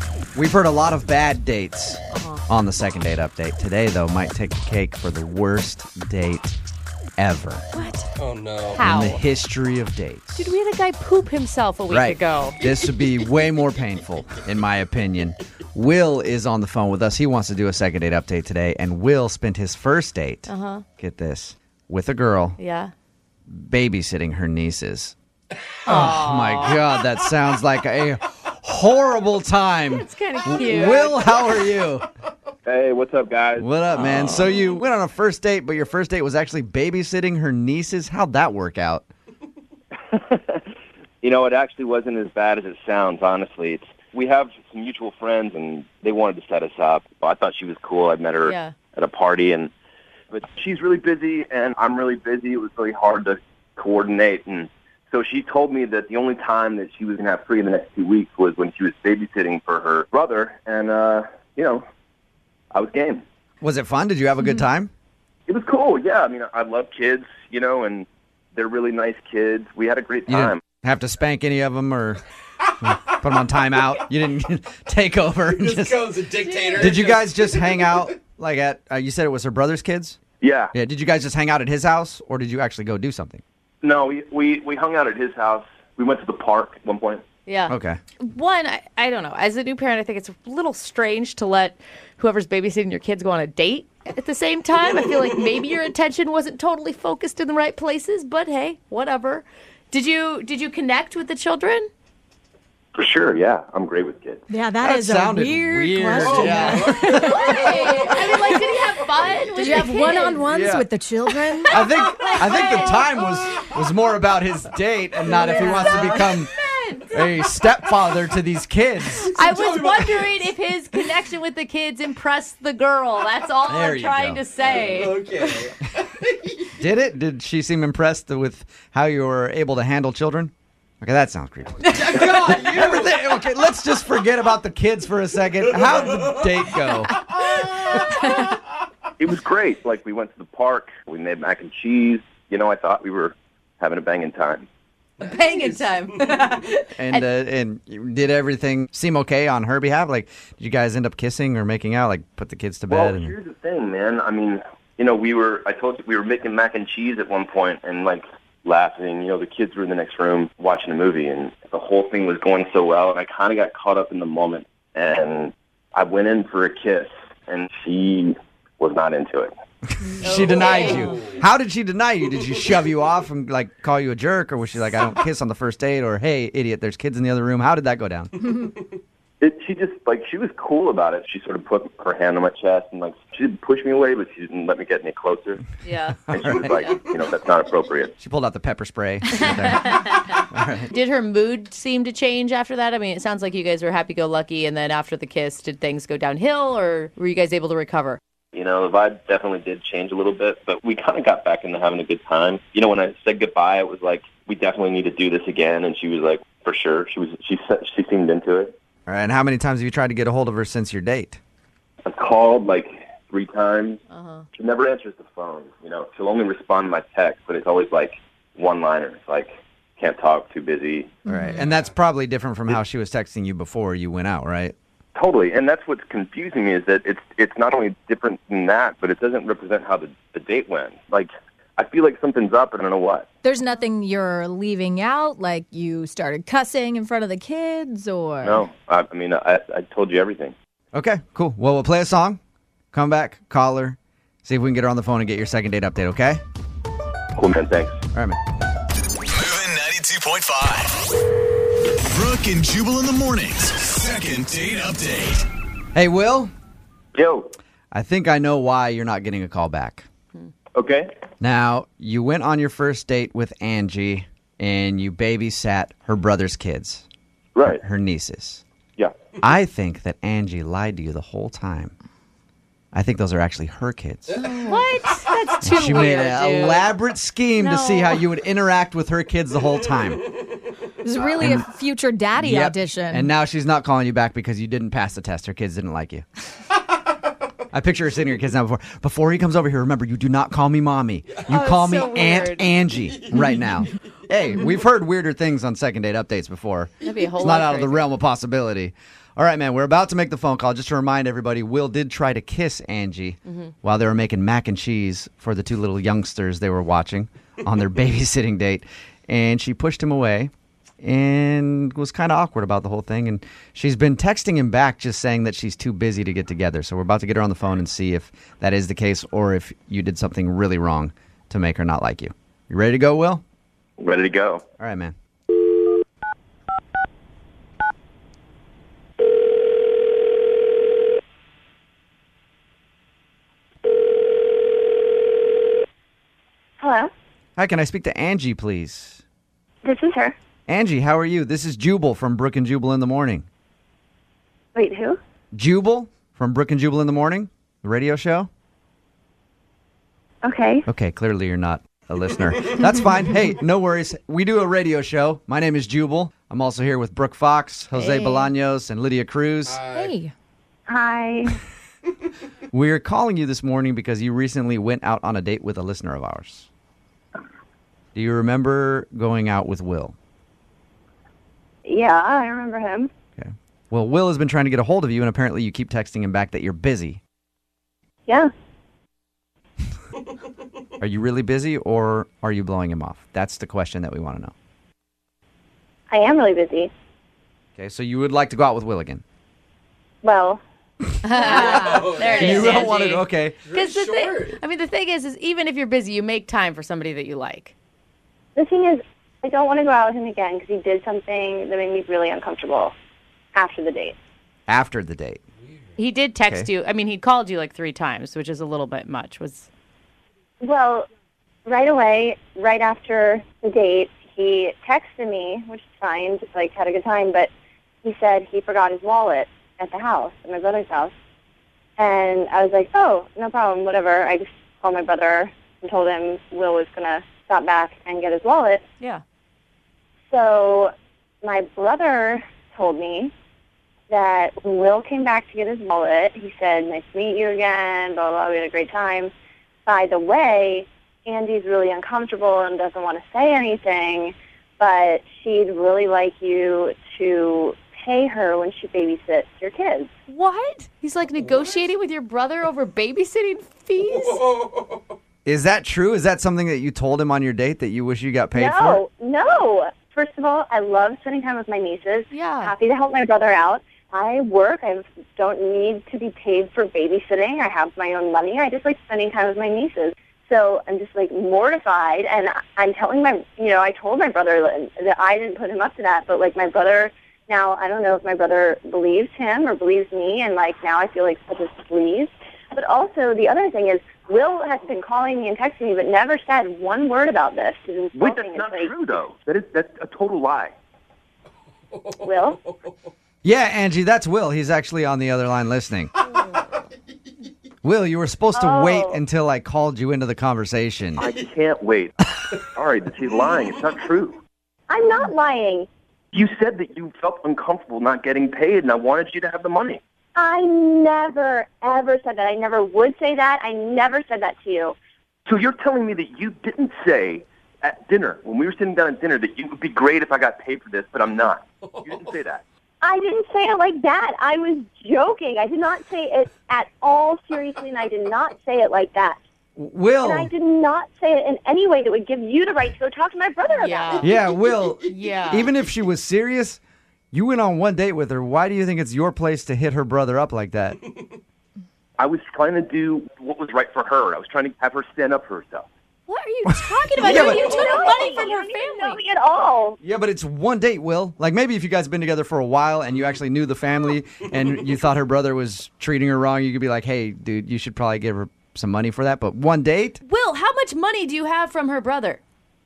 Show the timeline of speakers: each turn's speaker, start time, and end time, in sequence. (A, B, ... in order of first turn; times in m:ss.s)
0:00.3-0:06.6 A
0:02.1-0:02.4 B
0:07.2-0:07.6 A
0:07.7-0:08.1 B
0:08.2-0:08.8 C
0:08.7-0:09.2 B
0:08.8-0:10.5 A
0:10.4-0:12.6 B
0:11.9-0:22.6 A
0:20.5-0:20.8 B
0:22.6-0:22.9 B
0:23.5-0:25.1 A
0:25.9-0:26.8 B
0:25.9-0:32.1 A
0:29.9-0:31.5 B
0:32.6-0:33.6 D
0:33.6-0:39.1 A
0:33.9-0:34.8 B
0:40.1-0:40.6 D
0:41.2-0:49.7 D
0:48.4-0:48.7 B
0:50.3-1:01.8 D
1:02.7-1:03.2 D
1:03.6-1:04.9 A
1:05.5-1:10.6 D
1:10.3-1:12.2 A
1:12.8-1:20.2 A
1:15.6-1:17.8 C
1:16.5-1:17.1 B
1:20.4-1:20.7 D
1:20.7-1:23.4 A
1:23.8-1:27.2 D
1:27.4-1:41.9 B
1:27.7-1:28.0 A
1:42.9-1:44.4 D
1:44.5-1:47.4 E
1:44.8-1:48.2 A
1:46.2-1:46.9 C
1:47.1-1:50.5 B
1:49.5-1:51.8 E
1:50.5-1:50.9 A
1:51.3-1:53.6 B
1:51.7-1:56.5 A
1:55.2-1:57.2 B
1:57.1-1:59.4 A
1:59.2-2:05.5 B
1:59.6-2:00.3 C
2:03.7-2:04.4 A
2:04.8-2:06.3 C
2:06.8-2:17.2 A
2:11.9-2:12.6 B
2:12.1-2:12.9 C
2:17.4-2:18.5 B
2:19.2-2:24.7 D
2:25.2-2:27.2 B
2:27.0-2:33.3 A
2:32.9-2:49.5 D
2:50.0-2:58.3 A
2:50.2-2:51.4 B
2:50.9-2:51.3 C
2:59.4-3:05.6 D
3:05.8-3:07.0 B
3:06.3-3:08.1 D
3:06.3-3:06.7 A
3:08.2-3:10.9 A
3:09.4-3:18.2 B
3:18.5-3:28.8 D
3:29.1-3:31.4 A
3:32.0-3:34.0 D
3:34.1-3:34.4 B
3:34.5-3:41.2 D
3:41.2-3:41.6 E
3:41.3-3:44.7 A
3:45.1-3:53.3 D
3:53.4-3:58.6 E
3:58.4-4:00.5 D
4:00.9-4:02.4 A
4:02.9-4:06.4 A
4:07.4-4:08.0 D
4:09.3-4:11.0 F
4:12.1-4:15.4 F
4:15.9-4:16.5 A
4:17.1-4:17.5 D
4:17.9-4:20.1 A
4:20.7-4:21.1 D
4:21.4-4:27.0 A
4:27.6-4:27.8 D
4:27.6-4:28.6 A
4:29.4-4:31.9 A
4:32.9-4:34.4 A
4:34.4-4:36.9 B
4:35.6-4:40.4 A
4:37.6-4:38.2 B
4:41.0-4:43.3 E
4:41.3-4:41.7 A
4:42.4-4:46.2 A
4:47.7-5:23.4 A
4:51.5-4:52.9 B
4:57.0-4:58.1 B
5:24.0-5:24.6 D
5:24.8-5:25.1 A
5:36.8-5:37.1 G
5:37.6-5:39.2 A
5:39.8-5:40.3 G
5:40.7-5:43.4 A
5:44.7-5:45.2 G
5:45.5-5:48.5 A
5:50.4-5:50.8 G
5:50.9-5:59.8 A
5:58.0-5:58.4 G
5:59.7-6:00.1 C
5:59.9-6:00.3 E
6:00.9-6:01.6 G
6:02.7-6:06.7 A
6:08.1-6:10.1 A
6:11.8-6:13.1 G
6:13.4-6:17.2 A
6:21.0-6:24.5 A
6:26.1-6:26.9 G
6:27.8-6:29.2 A
6:30.2-6:30.6 G
6:31.2-6:37.7 B
6:31.3-6:33.6 A
6:32.0-6:32.7 C
6:33.7-6:34.5 C
6:38.6-6:42.9 G
6:43.5-6:44.2 G
6:44.7-6:45.4 A
6:46.0-6:49.7 B
6:50.6-6:51.1 G
6:51.6-6:57.5 G
6:58.0-7:01.1 G
7:02.0-7:08.8 G
7:10.3-7:10.9 G
7:11.4-7:13.3 G
7:14.1-7:19.3 G
7:19.8-7:30.1 G
7:30.3-7:34.4 B
7:35.4-7:39.0 A
7:38.5-8:09.0 G
7:42.3-7:42.7 B
8:08.1-8:10.7 D
8:12.2-8:12.6 G
8:13.4-8:16.1 A
8:17.8-8:21.2 A
8:18.5-8:19.2 G
8:21.2-8:24.4 D
8:24.9-8:25.9 G
8:26.3-8:30.0 D
8:30.4-8:35.0 G
8:35.4-8:42.6 D
8:43.0-8:49.4 G
8:49.8-8:50.5 A
8:50.2-8:54.4 G
8:53.8-8:54.3 B
8:54.2-8:56.8 A
8:55.0-8:55.7 B
8:57.3-9:01.0 A
9:02.2-9:05.9 D
9:06.3-9:09.2 B
9:06.7-9:07.1 E
9:07.2-9:07.7 A
9:07.2-9:10.0 G
9:10.0-9:20.2 A
9:20.2-9:22.4 B